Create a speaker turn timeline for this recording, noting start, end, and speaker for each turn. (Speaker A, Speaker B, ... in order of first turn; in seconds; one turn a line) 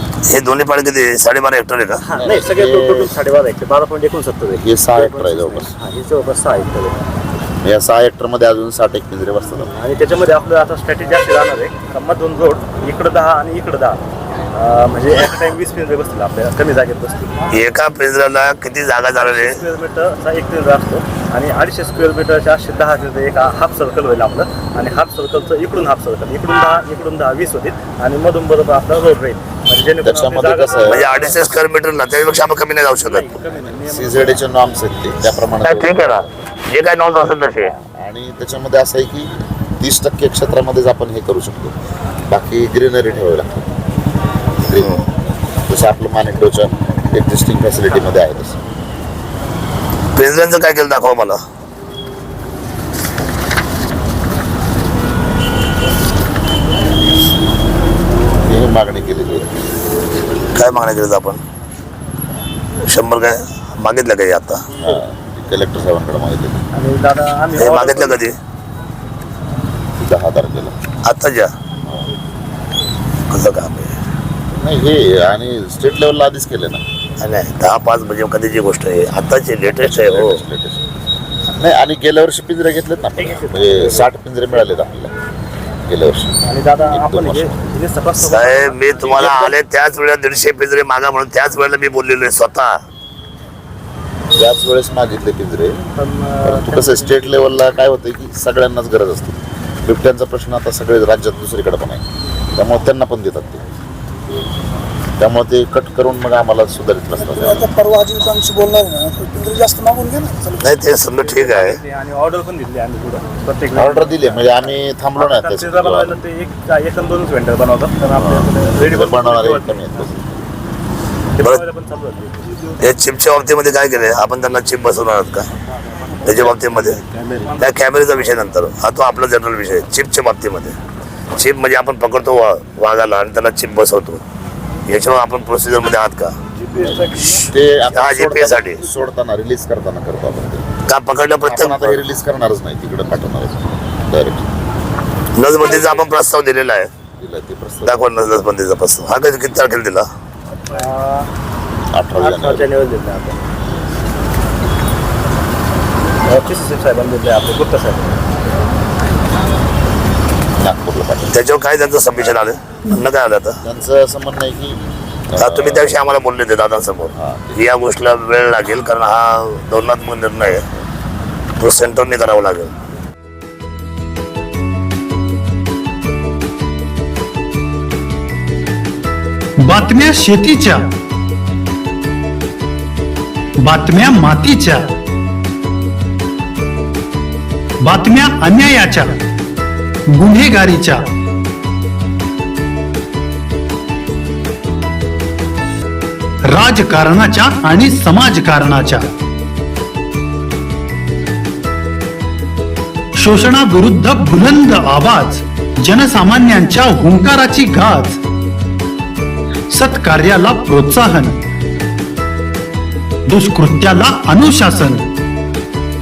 Speaker A: 0.3-2.0
Speaker B: 2.1-7.0
Speaker C: 2.1-3.1
Speaker C: 4.5-5.7
Speaker C: 7.6-9.8
Speaker B: 9.7-14.0
Speaker B: 14.5-17.3
Speaker A: 17.5-19.6
Speaker B: 19.1-31.4
Speaker C: 30.0-31.1
Speaker A: 30.9-33.3
Speaker B: 33.0-34.4
Speaker C: 33.9-36.3
Speaker A: 35.6-37.7
Speaker C: 37.6-41.7
Speaker C: 42.3-43.6
Speaker C: 44.6-45.0
Speaker A: 44.8-45.0
Speaker C: 45.7-48.6
Speaker A: 50.1-51.4
Speaker C: 58.4-59.5
Speaker A: 60.5-61.4
Speaker A: 62.9-64.7
Speaker C: 64.7-66.6
Speaker B: 66.7-68.2
Speaker A: 67.5-68.3
Speaker C: 70.0-70.7
Speaker A: 71.1-71.5
Speaker A: 73.3-73.9
Speaker C: 74.5-76.8
Speaker A: 77.2-80.4
Speaker C: 79.7-80.8
Speaker C: 81.6-85.1
Speaker B: 83.2-84.1
Speaker C: 85.9-86.4
Speaker B: 86.5-89.5
Speaker C: 86.9-87.7
Speaker A: 88.2-92.7
Speaker C: 94.4-95.8
Speaker B: 95.9-97.2
Speaker C: 96.4-103.6
Speaker C: 105.2-107.7
Speaker D: 107.5-110.6
Speaker A: 110.6-111.8
Speaker B: 111.2-120.1
Speaker C: 113.8-116.2
Speaker C: 118.1-120.2
Speaker B: 121.4-122.7
Speaker A: 122.8-125.5
Speaker A: 126.2-127.0
Speaker B: 127.2-127.5
Speaker A: 127.6-130.7
Speaker A: 131.4-134.2
Speaker A: 134.9-136.3
Speaker B: 136.7-137.1
Speaker A: 137.3-138.8
Speaker C: 137.3-140.7
Speaker A: 140.8-142.1
Speaker C: 141.4-144.5
Speaker A: 145.4-146.9
Speaker C: 147.2-148.1
Speaker A: 147.8-150.0
Speaker B: 150.7-151.3
Speaker C: 151.9-152.7
Speaker B: 152.2-153.4
Speaker B: 156.2-158.1
Speaker C: 160.6-161.4
Speaker A: 161.3-163.6
Speaker C: 163.6-164.8
Speaker C: 165.3-165.9
Speaker A: 165.4-170.6
Speaker C: 167.1-167.6
Speaker A: 171.6-172.7
Speaker E: 179.6-180.9
Speaker E: 183.6-184.9
Speaker E: 187.8-189.2
Speaker E: 190.1-191.1
Speaker E: 196.4-199.1
Speaker E: 203.1-208.2
Speaker E: 209.7-211.4
Speaker E: 213.3-215.1